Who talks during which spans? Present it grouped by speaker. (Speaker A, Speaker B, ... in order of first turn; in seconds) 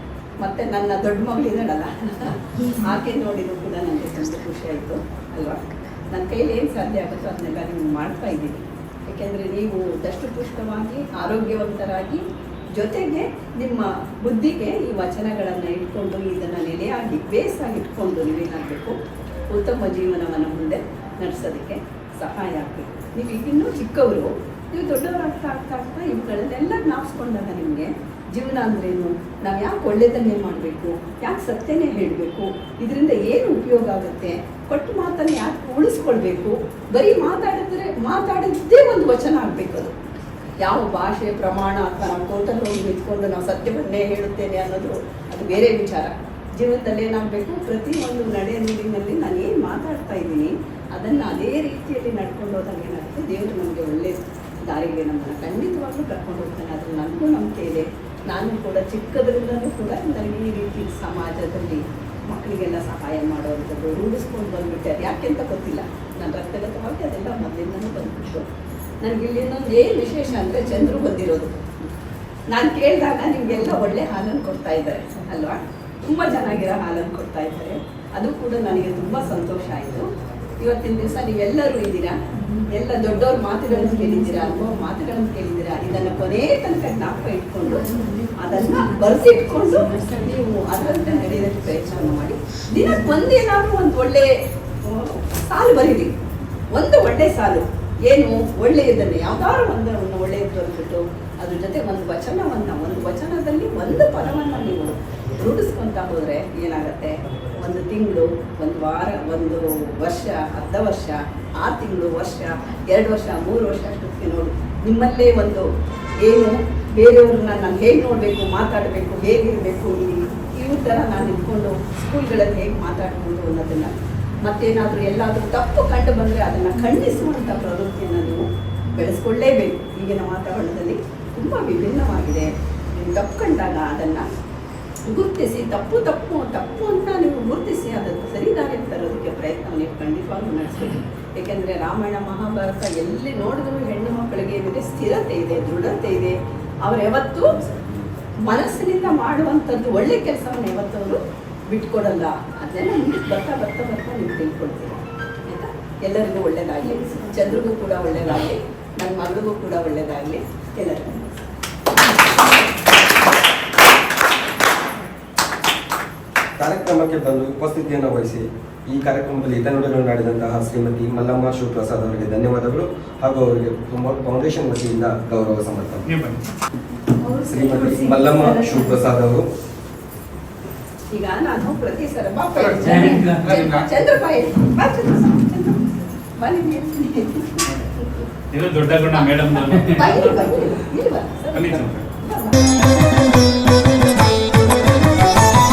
Speaker A: 0.4-12.2, 12.8-19.0, 19.5-39.9, 40.6-68.5, 69.0-71.7, 72.5-80.1, 80.6-82.2, 82.7-94.3, 94.8-96.1, 96.7-115.7, 116.2-134.3, 135.1-147.8, 148.5-161.4, 181.1-185.8, 186.4-188.2, 189.0-192.7
Speaker B: 166.6-176.1, 177.4-179.5
Speaker C: 176.1-176.4, 182.6-183.9, 188.5-190.5, 191.5-192.0